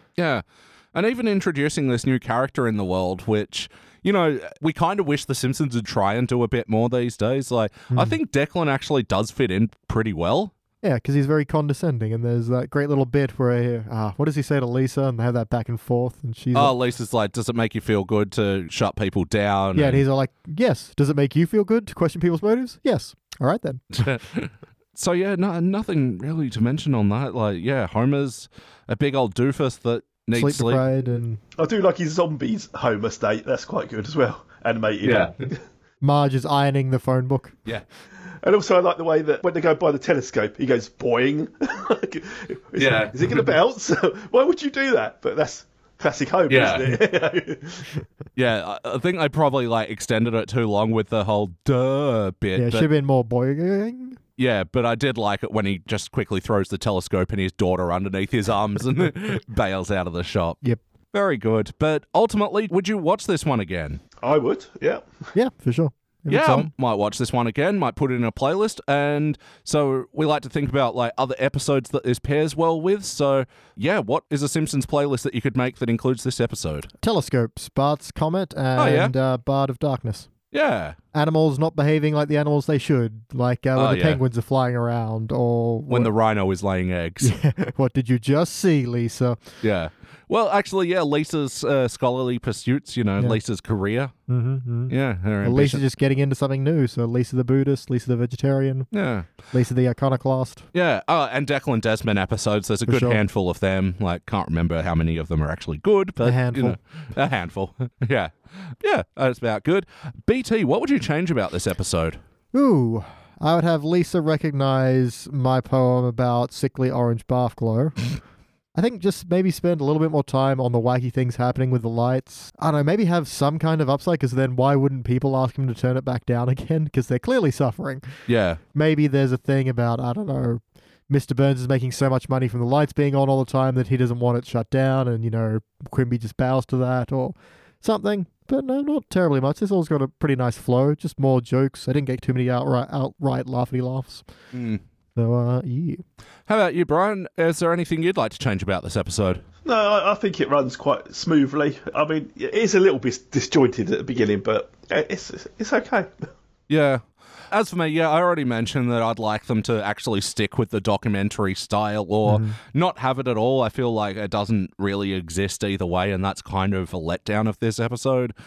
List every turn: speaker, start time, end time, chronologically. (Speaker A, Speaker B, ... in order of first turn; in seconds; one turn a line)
Speaker A: 0.2-10.5
Speaker B: 7.9-8.2
Speaker B: 10.8-16.7
Speaker A: 16.5-20.0
Speaker B: 19.8-24.0
Speaker A: 24.0-30.8
Speaker B: 30.3-31.4
Speaker C: 31.6-35.6
Speaker A: 35.0-35.4
Speaker B: 36.0-37.6
Speaker C: 38.4-48.0
Speaker A: 42.8-43.5
Speaker A: 46.5-47.0
Speaker A: 48.4-52.9
Speaker B: 52.5-54.2
Speaker A: 54.4-60.6
Speaker A: 61.1-64.0
Speaker C: 64.2-65.0
Speaker B: 65.3-66.7
Speaker A: 66.3-76.9
Speaker B: 77.0-80.3
Speaker A: 78.8-79.1
Speaker A: 80.5-81.0
Speaker B: 81.1-86.1
Speaker A: 83.8-84.2
Speaker A: 85.9-87.3
Speaker B: 87.2-89.4
Speaker A: 89.6-94.1
Speaker B: 94.3-98.9
Speaker A: 94.9-95.8
Speaker A: 98.9-99.3
Speaker B: 99.5-100.7
Speaker A: 100.7-112.2
Speaker B: 102.9-103.2
Speaker B: 106.2-106.8
Speaker B: 112.5-118.1
Speaker B: 118.8-128.1
Speaker A: 128.3-128.6
Speaker B: 128.7-144.2
Speaker A: 144.5-144.8
Speaker B: 145.2-146.0
Speaker A: 146.5-149.4
Speaker C: 149.7-156.3
Speaker A: 156.7-168.3
Speaker B: 162.2-162.6